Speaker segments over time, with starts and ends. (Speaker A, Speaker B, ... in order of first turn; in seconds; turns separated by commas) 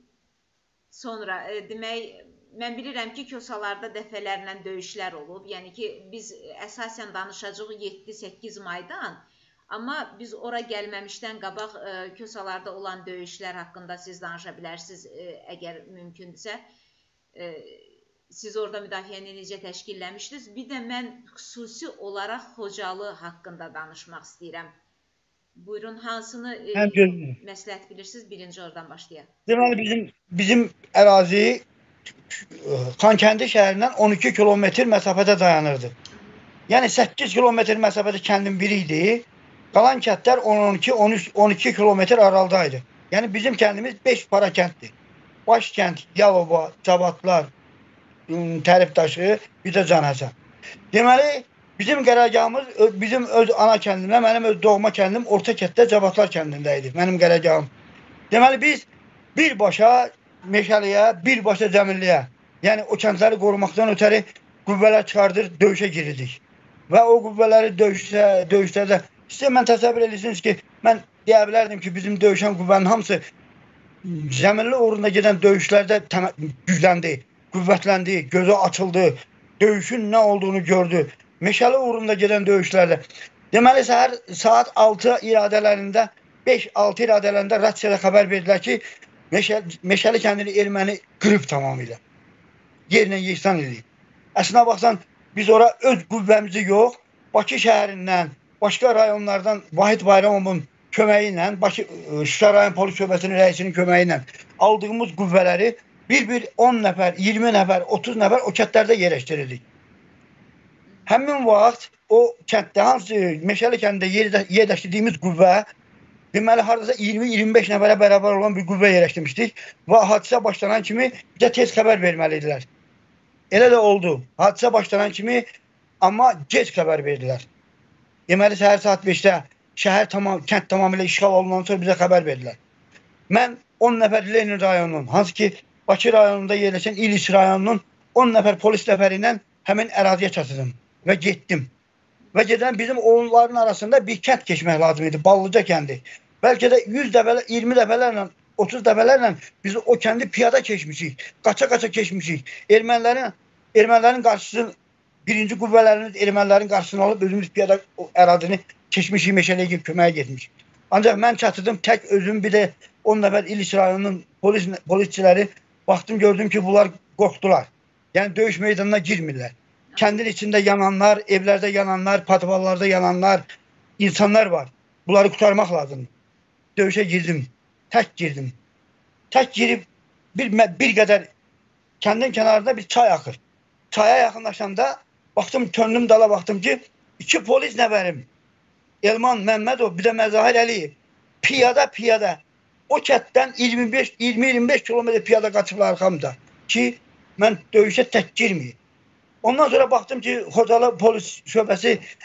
Speaker A: 0.9-16.6, Speaker A: 17.3-24.7, Speaker A: 25.6-29.3, Speaker B: 26.7-27.3, Speaker B: 29.5-31.6, Speaker B: 32.3-35.9, Speaker A: 36.1-36.4, Speaker B: 36.7-44.9, Speaker B: 45.5-47.5, Speaker B: 48.3-50.3, Speaker B: 50.9-57.7, Speaker B: 58.3-73.2, Speaker B: 74.0-88.8, Speaker B: 89.3-92.0, Speaker B: 92.9-93.8, Speaker B: 94.3-109.6, Speaker A: 110.9-111.2, Speaker B: 111.1-115.7, Speaker B: 116.3-122.7, Speaker B: 123.5-125.4, Speaker B: 126.0-127.5, Speaker B: 128.3-132.6, Speaker B: 133.3-141.7, Speaker B: 142.3-154.7, Speaker B: 155.2-173.4, Speaker A: 169.9-170.2, Speaker B: 174.0-176.1, Speaker B: 176.8-178.5, Speaker B: 179.3-181.3, Speaker B: 182.0-183.4, Speaker B: 183.9-188.3, Speaker B: 189.0-198.8, Speaker B: 199.4-202.0